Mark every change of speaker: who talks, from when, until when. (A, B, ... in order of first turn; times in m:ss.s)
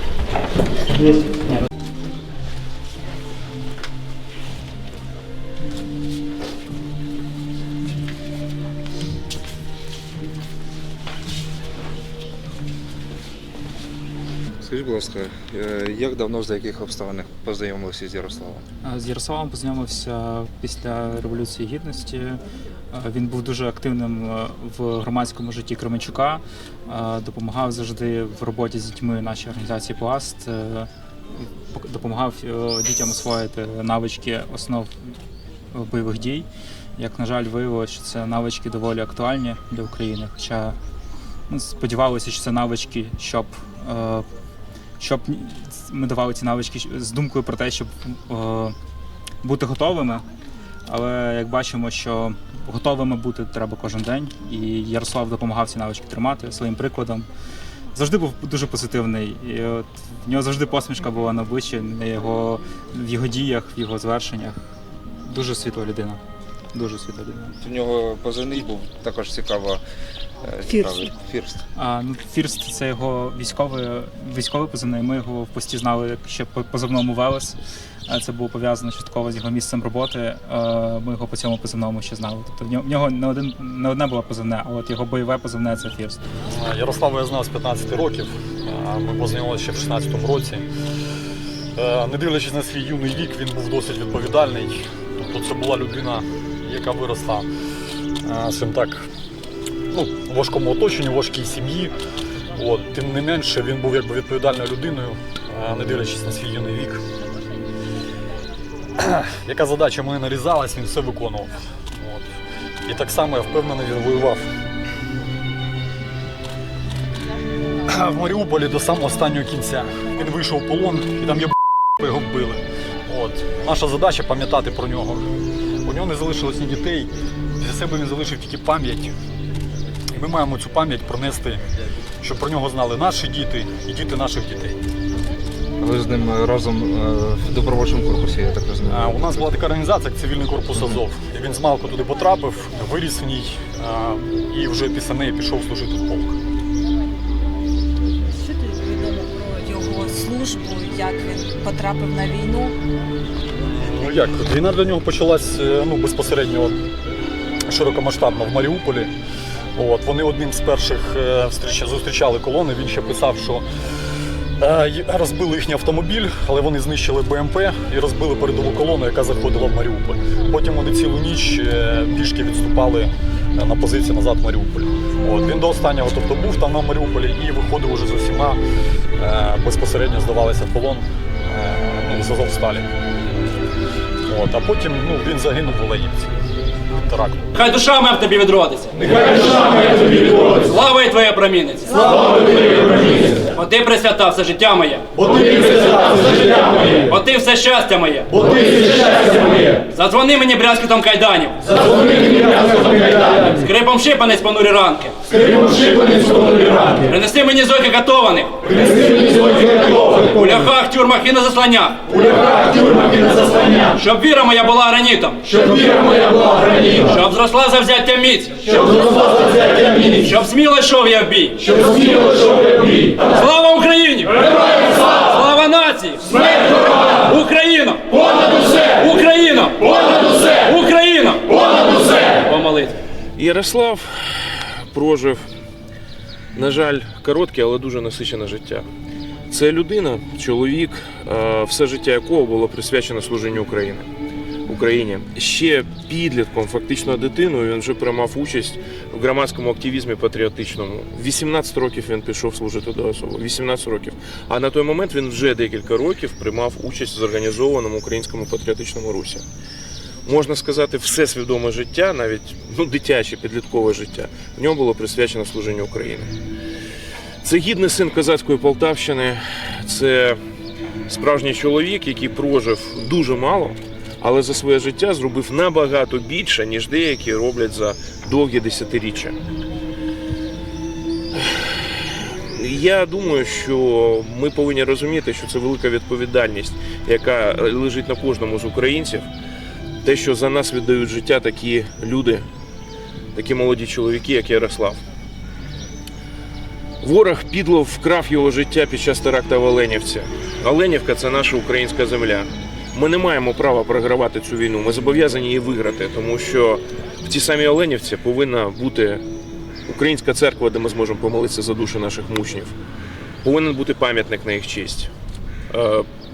0:01.0-0:01.5 A
0:14.6-0:18.6 B
0:18.8-0:22.4 A
0:22.9-0:34.9 A
0:35.7-0:40.7 A
0:41.5-0:44.2 A
0:45.0-0:48.7 A
0:49.4-0:50.2 A
0:50.9-0:57.3 A
0:57.9-1:04.6 A
1:05.2-1:06.2 A
1:06.7-1:07.5 A
1:07.6-1:09.8 B
1:10.4-1:11.6 B
1:11.8-1:26.2 A
1:26.5-1:30.6 C
1:31.8-1:37.5 C
1:38.2-1:39.1 C
1:39.9-1:41.9 C
1:42.6-1:47.0 C
1:49.0-1:54.5 C
1:57.8-2:05.3 C
2:05.8-2:09.1 C
2:10.1-2:11.6 C
2:12.2-2:14.8 C
2:15.8-2:19.4 B
2:18.9-2:26.4 C
2:28.4-2:32.7 D
2:33.8-2:36.8 C
2:37.7-2:39.1 C
2:39.8-2:43.6 C
2:44.6-2:58.6 C
2:59.2-3:02.9 C
3:04.2-3:06.3 C
3:06.9-3:07.5 C
3:07.5-3:09.0 E
3:09.0-3:10.5 C
3:10.1-3:15.1 E
3:15.2-3:16.8 C
3:16.8-3:18.7 E
3:18.7-3:19.6 C
3:19.8-3:52.9 E
3:53.4-3:55.4 F
3:56.5-3:58.9 F
3:59.5-4:04.1 F
4:04.7-4:19.4 F
4:20.2-4:26.3 F
4:27.4-4:30.4 F
4:31.1-4:39.4 F
4:41.4-4:49.3 F
4:50.0-4:52.4 F
4:53.3-4:55.0 F
4:57.0-5:09.2 F
5:09.8-5:12.7 F
5:13.4-5:15.1 F
5:15.7-5:16.1 F